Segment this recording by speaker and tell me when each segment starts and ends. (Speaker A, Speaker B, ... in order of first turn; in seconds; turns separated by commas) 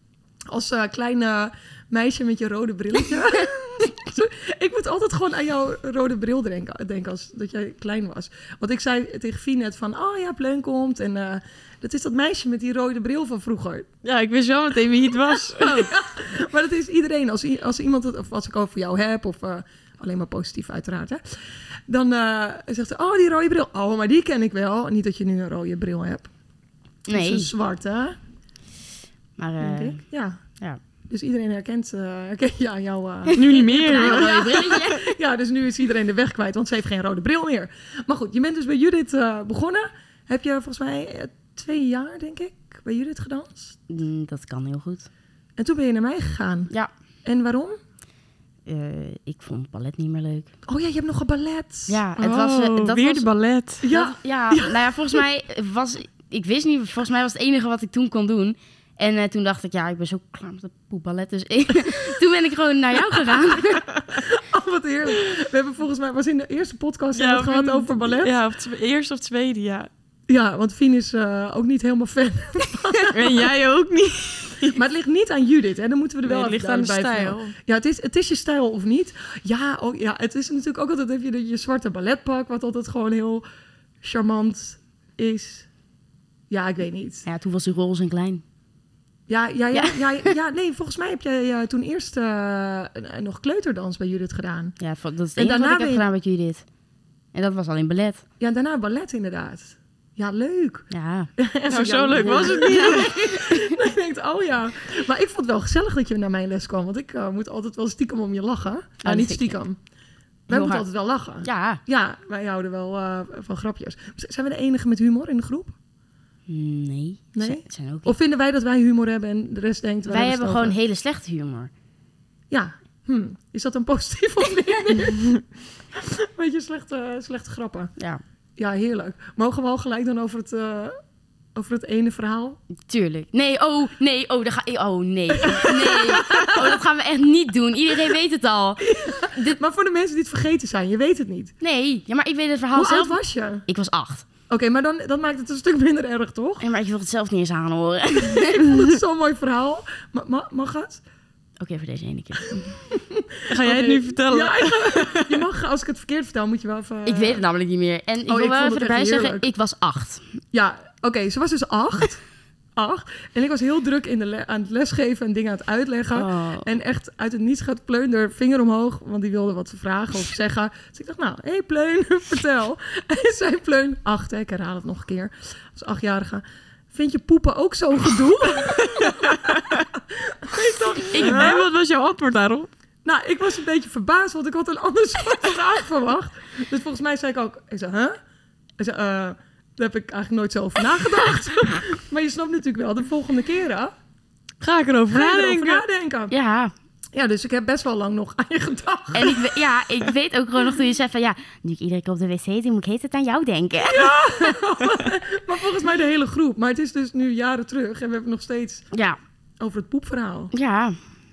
Speaker A: 0.5-13.9, Speaker B: 14.0-15.9, Speaker A: 15.6-21.2, Speaker A: 21.9-26.3, Speaker C: 27.1-27.5, Speaker A: 27.1-28.2, Speaker C: 29.4-30.0, Speaker A: 29.6-30.4, Speaker A: 31.1-43.8, Speaker C: 33.3-35.0, Speaker B: 33.4-34.8, Speaker C: 43.9-45.1, Speaker A: 45.6-46.7, Speaker A: 47.2-47.8, Speaker C: 48.7-50.5, Speaker A: 50.7-52.0, Speaker C: 51.9-53.3, Speaker B: 52.2-53.8, Speaker A: 53.8-55.2, Speaker C: 53.9-63.9, Speaker A: 64.2-68.3, Speaker B: 67.1-69.9, Speaker A: 70.3-73.5, Speaker B: 73.1-74.8, Speaker A: 74.7-83.4, Speaker B: 76.2-77.5, Speaker A: 84.0-85.7, Speaker A: 86.5-87.2, Speaker C: 87.2-88.4, Speaker A: 89.3-94.8, Speaker C: 89.7-90.3, Speaker C: 94.8-96.7, Speaker A: 95.4-96.0, Speaker C: 97.3-98.2, Speaker A: 98.4-109.8, Speaker C: 100.9-101.3, Speaker B: 101.7-103.1, Speaker C: 102.1-103.2, Speaker C: 109.0-109.6, Speaker A: 110.5-115.8, Speaker C: 110.5-110.8, Speaker C: 111.4-111.8, Speaker C: 116.5-118.1, Speaker A: 117.3-120.8, Speaker C: 120.1-121.7, Speaker A: 122.5-125.4, Speaker A: 125.9-127.9, Speaker A: 128.6-131.0, Speaker A: 131.6-132.6, Speaker C: 132.9-139.6, Speaker A: 135.5-136.8, Speaker A: 138.8-141.5, Speaker C: 141.6-144.2, Speaker A: 142.8-143.7, Speaker A: 144.5-146.6, Speaker C: 146.6-148.6, Speaker A: 148.4-151.0, Speaker C: 151.6-152.8, Speaker A: 152.9-157.4, Speaker B: 153.5-155.4, Speaker C: 157.1-160.2, Speaker A: 158.3-159.4, Speaker A: 160.5-162.2, Speaker A: 162.8-181.6, Speaker C: 166.1-166.7, Speaker C: 181.1-181.5, Speaker B: 181.2-182.7, Speaker A: 183.1-188.2, Speaker A: 188.8-193.9, Speaker B: 194.6-195.8, Speaker A: 195.1-196.3, Speaker C: 196.3-196.7, Speaker A: 197.1-199.5, Speaker C: 199.1-204.5, Speaker A: 203.9-208.9, Speaker C: 208.9-209.2, Speaker A: 209.6-210.5, Speaker C: 210.5-211.0